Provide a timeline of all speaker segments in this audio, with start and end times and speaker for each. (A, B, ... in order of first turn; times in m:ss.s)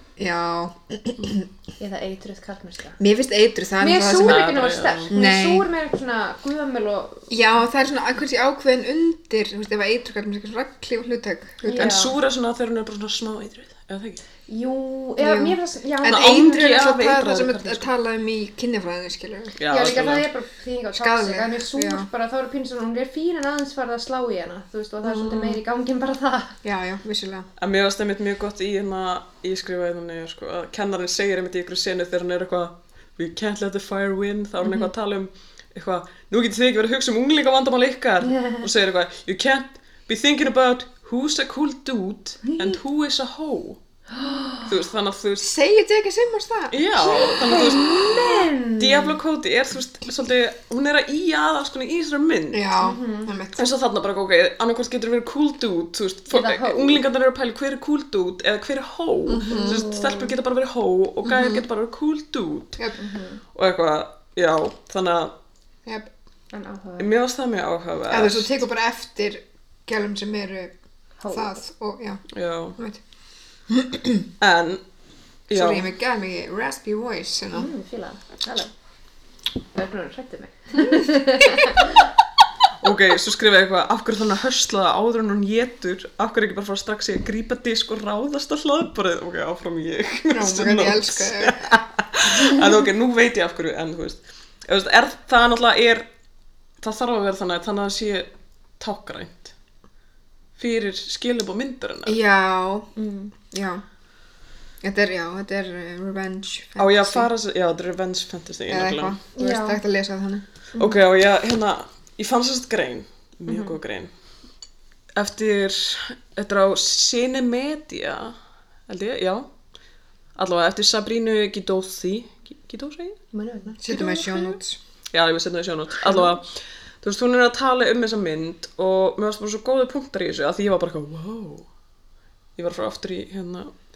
0:00.2-0:01.5 A
0:01.8-0:03.0 B
0:03.0-0:04.6 A
0:03.8-0:07.3 B
0:04.2-0:05.1 C
0:05.1-0:05.6 A
0:07.3-0:12.0 A
0:11.6-0:12.2 B
0:11.7-0:14.2 C
0:14.5-0:16.8 B
0:15.2-0:19.6 A
0:16.0-0:17.9 C
0:19.6-0:20.3 C
0:19.7-0:26.6 B
0:21.0-0:22.1 A
0:25.0-0:25.6 A
0:26.6-0:27.5 A
0:27.6-0:43.8 C
0:38.2-0:38.7 B
0:42.4-0:42.8 B
0:44.1-0:44.7 B
0:44.7-0:45.5 C
0:45.4-0:46.8 A
0:46.7-0:52.7 C
0:47.0-0:49.2 B
0:52.5-0:53.7 A
0:52.8-0:53.3 B
0:53.6-1:02.8 C
0:56.3-0:57.0 B
0:59.3-0:59.8 A
0:59.5-1:00.3 B
1:01.2-1:01.6 A
1:03.0-1:03.4 B
1:03.5-1:05.3 C
1:06.5-1:07.1 B
1:07.0-1:08.6 C
1:08.1-1:10.7 A
1:11.2-1:11.6 B
1:11.3-1:12.2 A
1:12.3-1:12.8 C
1:13.7-1:14.3 A
1:14.4-1:14.8 C
1:15.5-1:15.9 C
1:15.5-1:17.7 A
1:17.5-1:18.7 B
1:19.7-1:22.1 B
1:21.0-1:21.8 A
1:22.8-1:36.0 C
1:30.3-1:31.8 A
1:36.8-1:39.5 C
1:40.6-1:42.2 C
1:42.1-1:42.9 A
1:43.0-1:43.3 B
1:43.5-1:43.8 A
1:44.8-1:47.3 A
1:46.8-1:49.2 C
1:48.7-1:50.5 A
1:49.4-1:49.8 B
1:50.8-1:54.1 C
1:53.5-1:53.8 B
1:55.2-1:58.4 C
1:58.9-1:59.5 C
2:00.4-2:03.2 C
2:03.3-2:04.6 B
2:03.8-2:04.8 A
2:05.1-2:06.4 C
2:06.0-2:06.3 B
2:07.0-2:11.7 C
2:12.6-2:13.8 C